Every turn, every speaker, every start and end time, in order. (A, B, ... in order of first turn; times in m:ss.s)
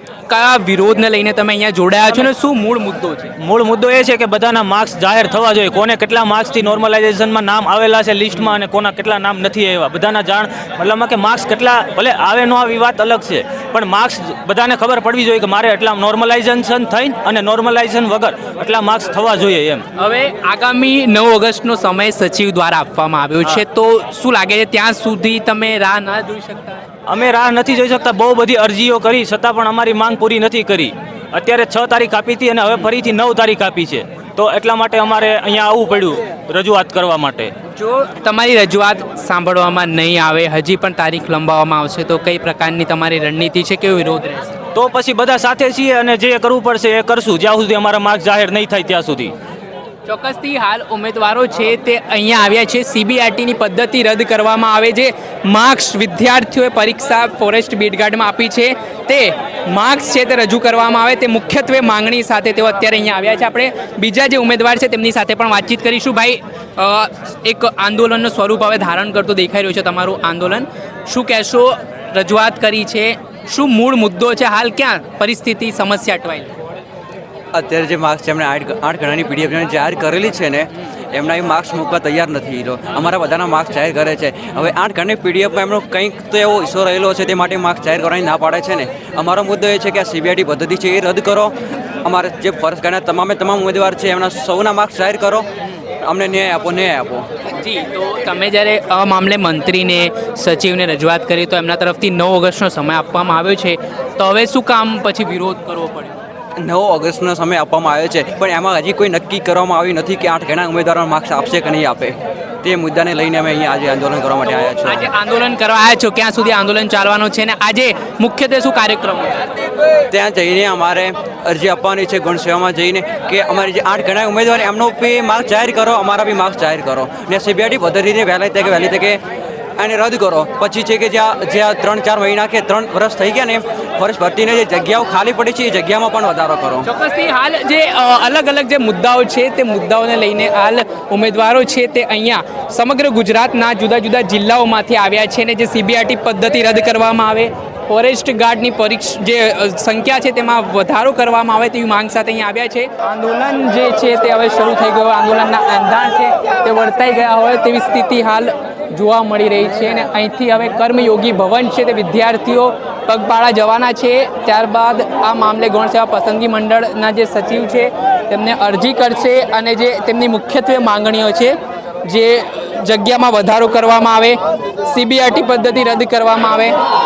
0:00.3-0:03.3 A
0:03.4-0:19.8 B
0:20.0-0:26.8 A
0:27.1-0:37.5 B
0:37.7-0:44.5 A
0:44.7-0:49.3 B
0:50.1-1:16.5 A
1:17.5-1:31.5 C
1:32.0-1:35.5 C
1:36.0-1:37.2 C
1:37.5-1:46.1 A
1:46.6-1:55.1 C
1:54.8-1:59.4 A
2:00.1-2:09.2 C
2:09.8-2:16.8 C
2:16.8-2:56.7 A